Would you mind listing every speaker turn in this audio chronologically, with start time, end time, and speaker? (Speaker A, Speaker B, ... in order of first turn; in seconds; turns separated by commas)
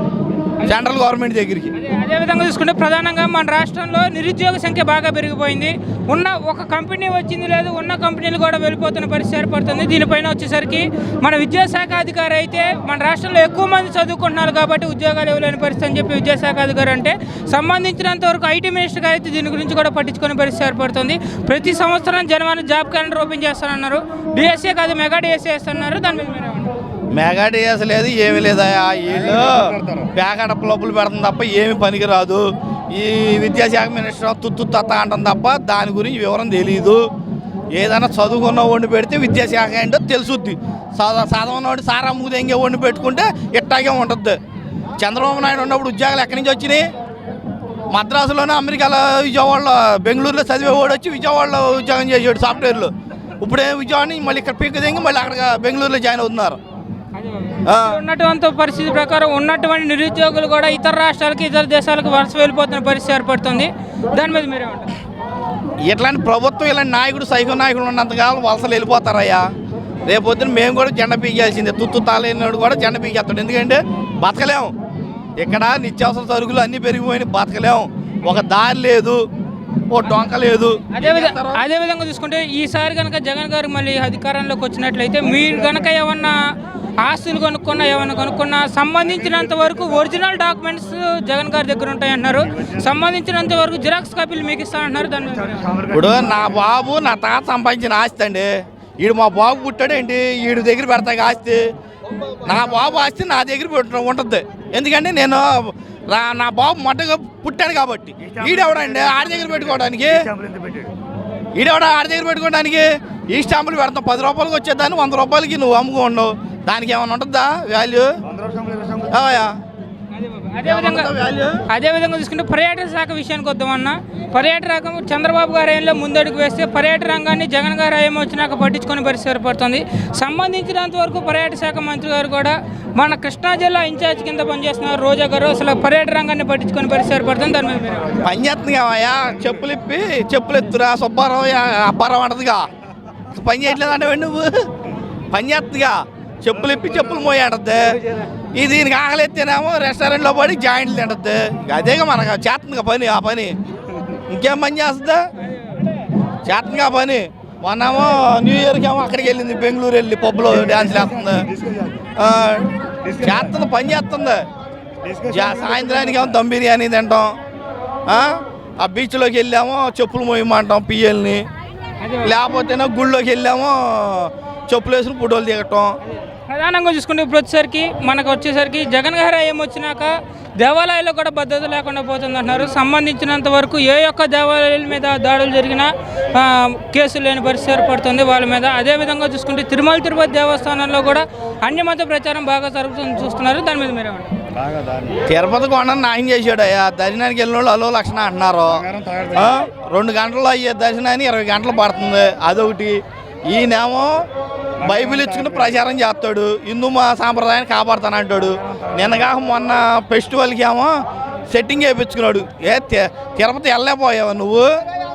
Speaker A: 0.7-1.7, Speaker B: 1.8-26.7, Speaker A: 27.1-37.0, Speaker A: 37.7-44.4, Speaker A: 45.0-46.8, Speaker A: 47.9-56.6, Speaker B: 57.2-64.9, Speaker A: 57.6-58.0, Speaker A: 65.9-69.5, Speaker A: 70.1-74.7, Speaker A: 75.4-79.2, Speaker A: 79.9-81.6, Speaker B: 80.9-86.4, Speaker B: 87.0-95.9, Speaker A: 95.9-98.5, Speaker A: 99.0-101.6, Speaker A: 102.5-110.2, Speaker A: 111.5-118.1, Speaker A: 119.1-119.5, Speaker B: 120.1-121.1, Speaker A: 120.7-121.6, Speaker B: 121.7-138.2, Speaker A: 138.2-142.6, Speaker A: 143.3-144.5, Speaker A: 145.3-147.8, Speaker A: 148.6-153.5, Speaker A: 154.3-155.2, Speaker A: 156.5-161.5, Speaker A: 162.2-164.4, Speaker A: 165.3-167.3, Speaker A: 168.8-171.4, Speaker B: 172.0-172.3, Speaker A: 172.2-175.9, Speaker B: 176.5-194.3, Speaker A: 195.3-204.2, Speaker A: 204.8-210.9, Speaker A: 211.5-214.7